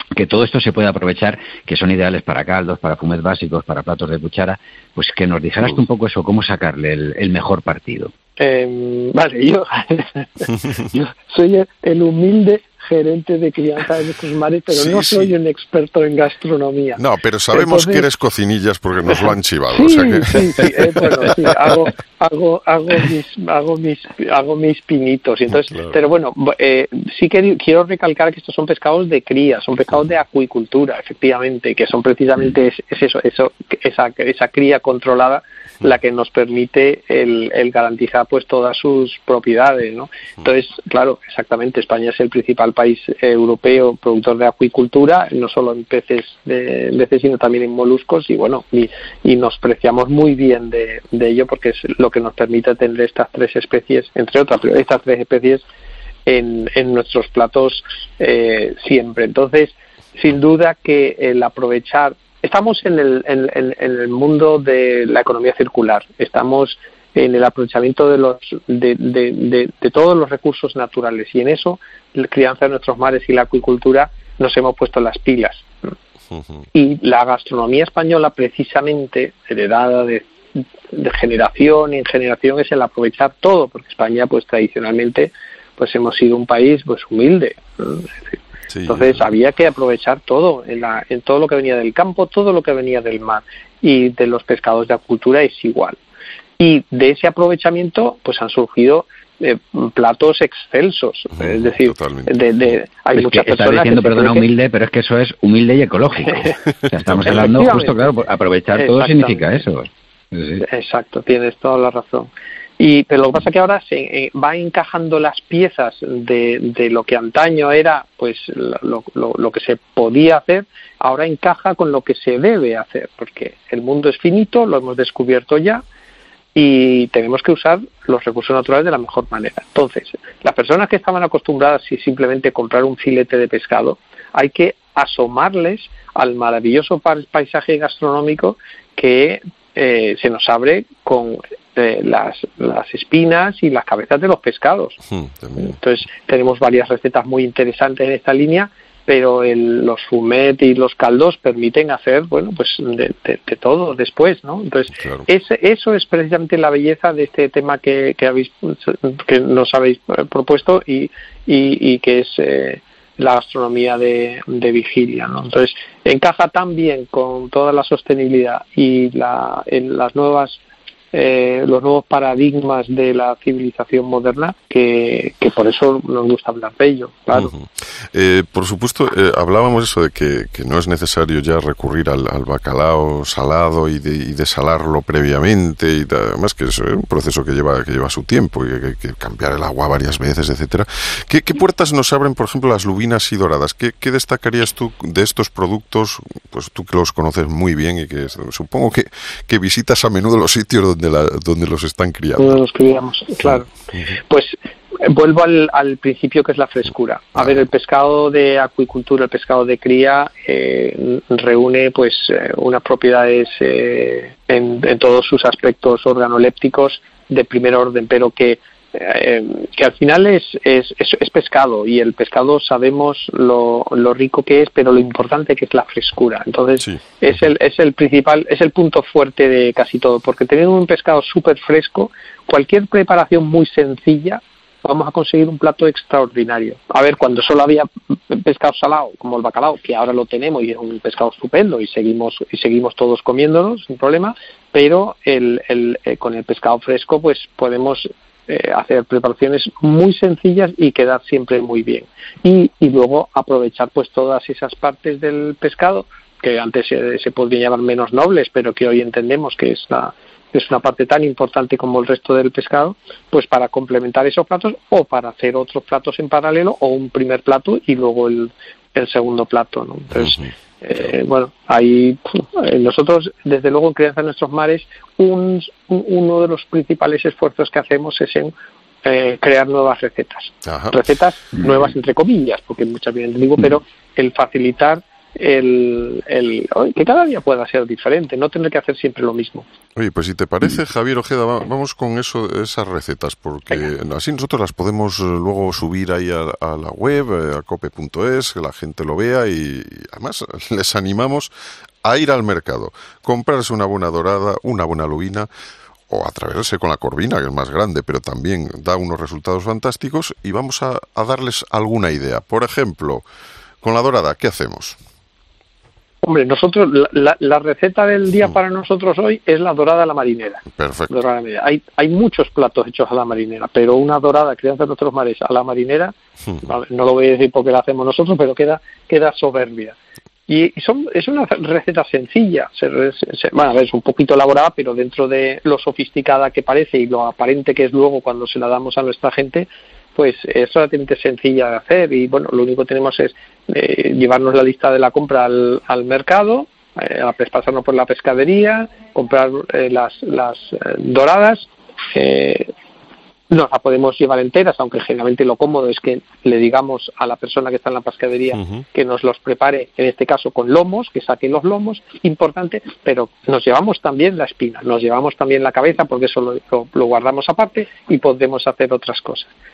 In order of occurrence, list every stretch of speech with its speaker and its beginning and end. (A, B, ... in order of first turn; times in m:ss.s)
0:00.1-0:08.1 A
0:08.4-0:17.0 B
0:14.7-0:15.3 C
0:17.0-0:20.7 C
0:17.5-0:18.0 B
0:19.7-0:55.6 B
0:25.5-0:26.0 C
0:56.2-1:15.6 B
1:16.3-1:16.6 C
1:16.7-1:28.1 B
1:28.7-1:29.2 C
1:28.9-1:36.0 B
1:36.6-1:44.5 B
1:41.4-1:42.5 C
1:43.2-1:50.6 A
1:47.0-1:47.6 C
1:47.2-1:48.1 B
1:48.7-1:49.6 B
1:50.6-2:05.8 B
2:06.6-2:25.0 B
2:25.1-2:25.8 C
2:25.6-2:50.6 B
2:35.0-2:35.3 C
2:51.1-2:57.5 B
2:57.3-3:22.5 C
3:22.4-3:23.7 B
3:23.4-3:24.2 C
3:24.2-4:38.5 B
4:30.2-4:30.5 C
4:39.0-4:49.6 B
4:40.6-4:41.0 C
4:50.0-5:01.5 C
5:02.0-5:05.5 C
5:06.1-5:13.2 C
5:13.8-5:15.0 C
5:16.2-5:29.9 B
5:20.7-5:21.2 C
5:30.5-5:52.7 B
5:53.5-6:09.5 B
5:58.5-5:58.8 C